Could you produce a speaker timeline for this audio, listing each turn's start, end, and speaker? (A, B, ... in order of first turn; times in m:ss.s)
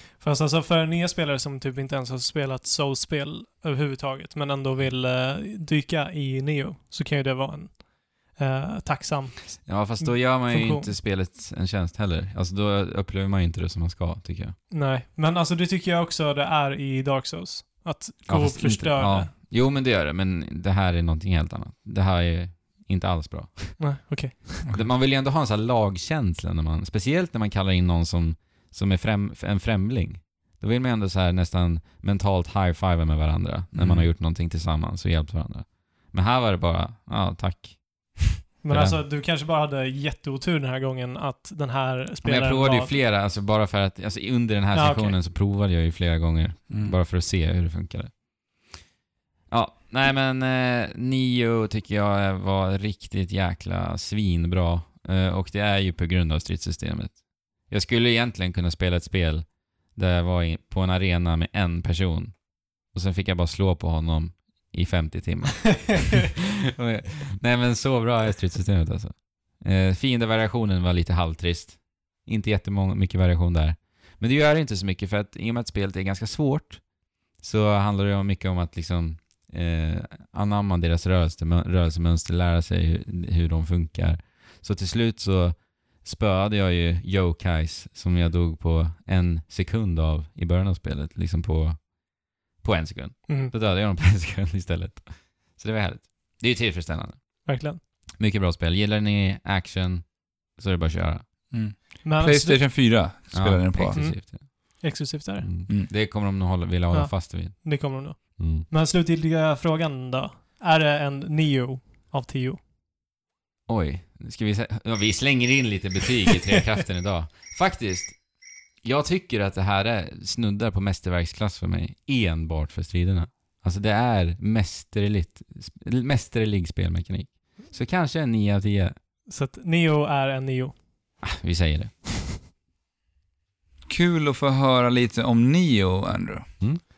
0:00.2-0:10.9 A
0:09.6-0:14.6 B
0:14.7-0:19.3 A
0:18.3-0:24.0 B
0:23.8-0:24.6 A
0:24.7-0:39.0 B
0:33.7-0:34.1 C
0:38.6-0:43.0 A
0:42.2-0:48.8 B
0:44.7-0:45.2 A
0:46.7-0:47.0 C
0:49.5-1:32.0 B
1:32.6-1:37.5 B
1:37.4-1:37.8 A
1:38.2-1:41.3 B
1:41.5-1:44.0 C
1:42.0-1:42.6 A
1:43.3-1:44.9 B
1:43.9-1:45.5 A
1:45.4-1:48.7 B
1:46.9-1:52.6 A
1:53.7-1:58.2 B
1:58.8-2:09.0 B
2:09.3-2:10.8 A
2:11.2-2:11.9 B
2:13.8-2:16.5 C